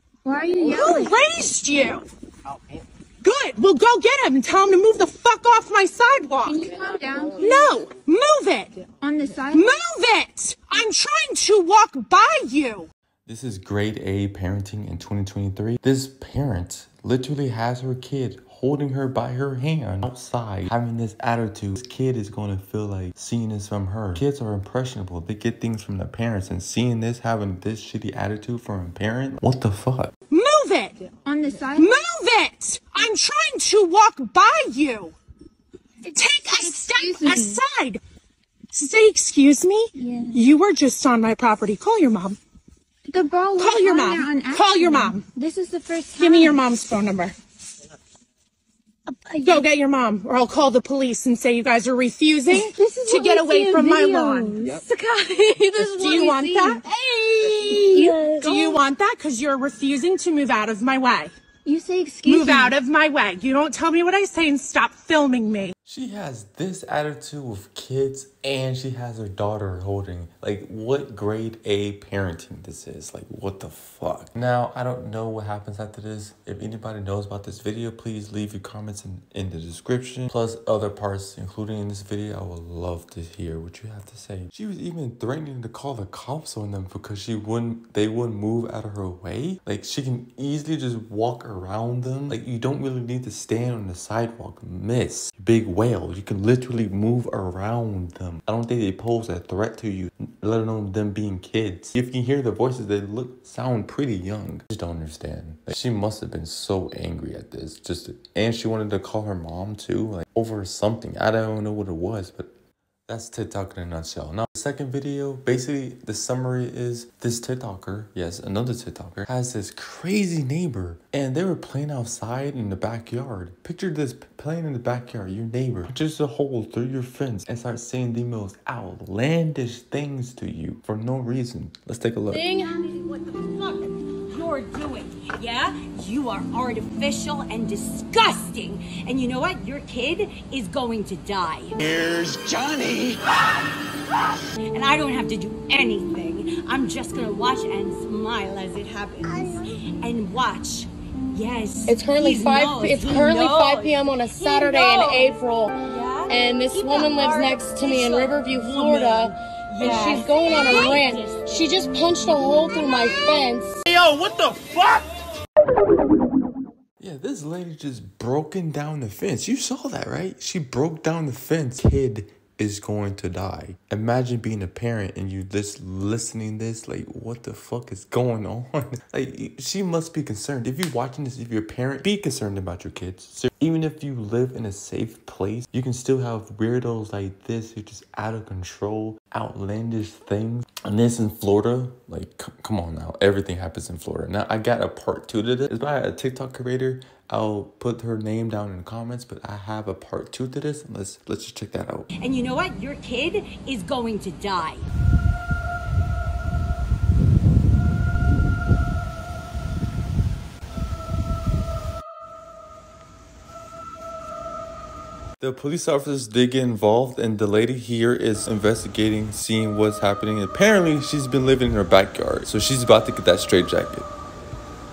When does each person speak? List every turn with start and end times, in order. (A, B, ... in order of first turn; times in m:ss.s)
0:00.2-0:01.2 A
0:00.6-0:02.0 B
0:03.2-0:06.6 B
0:06.5-0:07.7 A
0:07.4-0:08.9 B
0:09.0-0:09.7 A
0:09.5-0:12.9 B
0:13.3-0:30.1 C
0:30.3-0:31.1 B
0:31.2-0:32.0 A
0:31.7-0:35.2 B
0:36.1-0:38.0 B
0:36.5-0:37.6 A
0:38.7-0:42.4 B
0:40.0-0:40.5 A
0:43.1-0:46.9 A
0:43.6-0:45.2 B
0:46.2-0:47.4 B
0:49.1-0:49.6 A
0:49.4-0:54.7 B
0:52.5-0:56.8 A
0:55.9-1:01.4 B
0:57.4-0:58.8 A
1:01.7-1:02.8 A
1:02.3-1:05.7 B
1:05.8-1:52.5 C
1:53.1-2:12.5 C
2:12.3-2:12.7 D
2:12.5-2:21.8 E
2:21.8-2:23.3 F
2:24.7-2:41.7 E
2:29.3-2:29.6 A
2:31.9-2:35.8 D
2:36.3-2:43.9 D
2:43.9-2:45.0 F
2:47.0-3:22.1 C
3:22.2-3:24.9 E
3:35.4-3:44.1 C